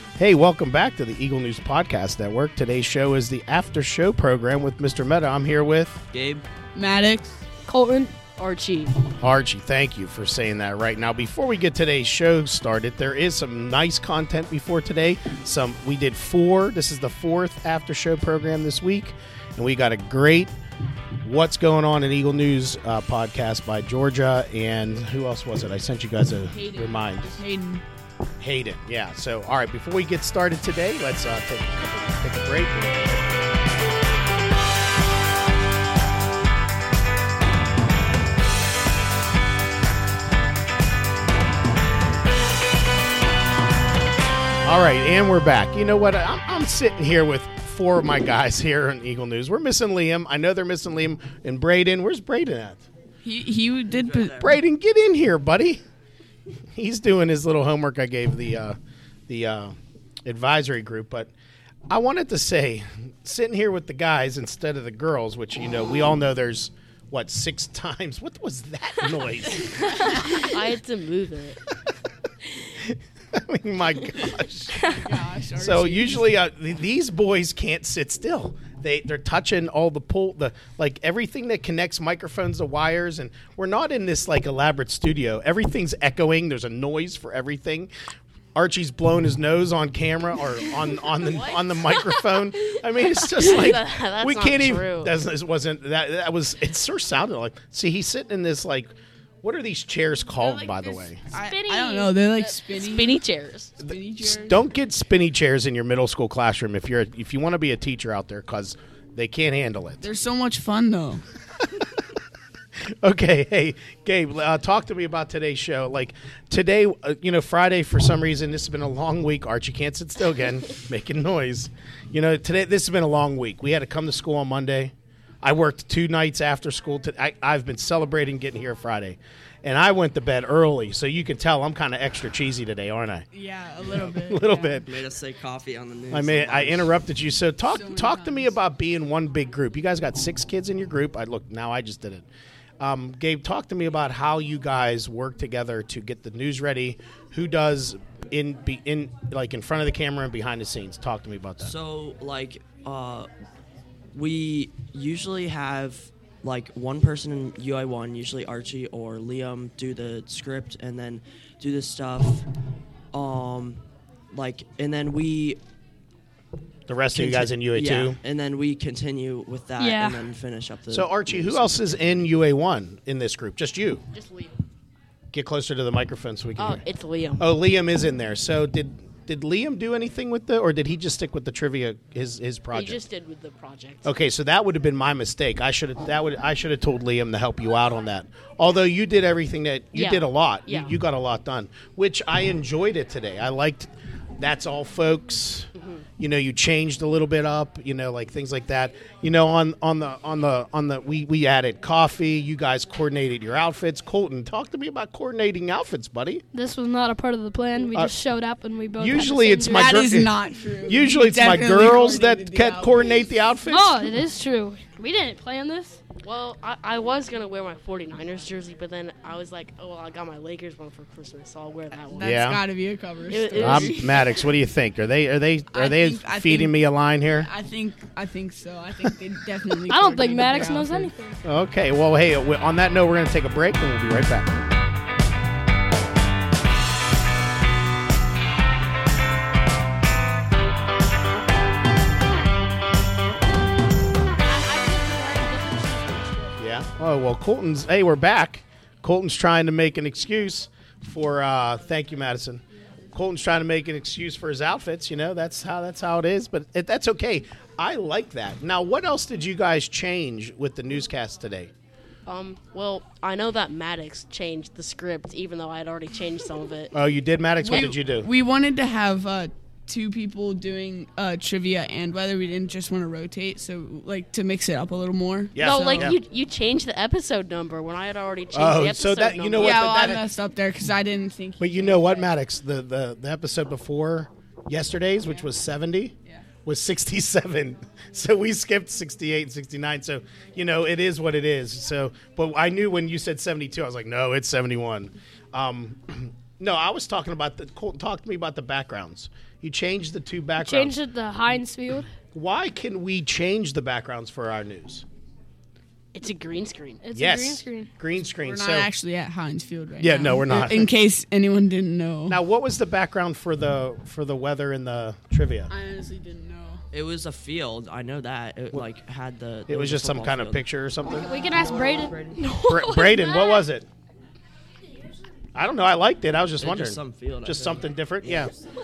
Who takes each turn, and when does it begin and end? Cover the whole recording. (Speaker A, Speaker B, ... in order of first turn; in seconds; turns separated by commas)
Speaker A: 0.2-6.0, Speaker B: 6.1-6.4, Speaker C: 6.7-7.4, Speaker D: 7.7-8.1, Speaker E: 8.4-8.9, Speaker A: 9.2-20.5, Speaker A: 21.2-27.4, Speaker C: 26.5-27.8, Speaker A: 28.4-33.6, Speaker A: 44.6-52.8, Speaker C: 53.2-54.5, Speaker B: 53.9-54.6, Speaker A: 54.4-55.8, Speaker A: 56.7-58.8, Speaker A: 59.3-61.3, Speaker A: 61.9-69.9, Speaker E: 69.9-71.6, Speaker A: 72.8-74.8, Speaker C: 74.7-76.3, Speaker A: 75.6-87.9, Speaker A: 88.5-98.9, Speaker E: 91.2-92.0, Speaker E: 93.3-95.1, Speaker A: 99.4-101.2, Speaker C: 100.4-103.2, Speaker D: 101.4-102.2, Speaker E: 102.3-103.8, Speaker C: 103.8-104.6, Speaker A: 103.8-110.0, Speaker C: 110.0-111.2, Speaker A: 113.0-133.2, Speaker C: 133.3-134.7, Speaker A: 133.8-134.9, Speaker B: 134.8-137.0, Speaker A: 136.1-142.2, Speaker C: 137.6-138.5, Speaker A: 142.8-151.7, Speaker B: 151.6-153.3, Speaker B: 154.1-162.4, Speaker B: 163.1-165.6, Speaker A: 166.9-168.2, Speaker B: 167.1-172.2, Speaker D: 169.8-170.2, Speaker A: 170.9-174.0, Speaker E: 174.1-174.5, Speaker A: 175.3-176.8, Speaker E: 176.6-177.5, Speaker A: 177.4-183.0, Speaker E: 182.7-184.1, Speaker A: 184.0-206.4, Speaker E: 189.9-190.9, Speaker E: 195.8-196.0, Speaker D: 206.5-209.9, Speaker A: 209.0-214.2, Speaker C: 209.7-213.2, Speaker D: 213.7-216.0, Speaker E: 216.2-222.4, Speaker C: 222.1-224.1, Speaker A: 222.2-222.6, Speaker E: 223.3-224.2, Speaker A: 223.6-227.5, Speaker C: 225.7-226.7, Speaker C: 227.3-231.1, Speaker D: 229.9-231.4, Speaker A: 231.4-234.7, Speaker E: 245.0-246.3, Speaker A: 246.6-261.7, Speaker E: 262.2-266.9, Speaker A: 266.9-268.3, Speaker C: 267.6-276.1, Speaker A: 275.5-276.1, Speaker E: 275.6-279.9, Speaker A: 278.5-280.2, Speaker C: 279.6-282.3, Speaker A: 281.6-301.0, Speaker D: 300.6-302.1, Speaker A: 302.2-305.0, Speaker E: 306.1-307.0, Speaker D: 307.0-307.9, Speaker A: 307.1-308.9, Speaker C: 308.4-312.4, Speaker A: 310.0-310.9, Speaker A: 312.3-315.7, Speaker C: 315.7-316.8, Speaker B: 316.9-320.6, Speaker A: 319.7-321.4, Speaker D: 321.1-322.1, Speaker B: 321.4-322.4, Speaker E: 322.4-323.3, Speaker A: 322.7-323.9, Speaker D: 323.0-323.6, Speaker A: 325.5-328.5, Speaker B: 326.6-328.5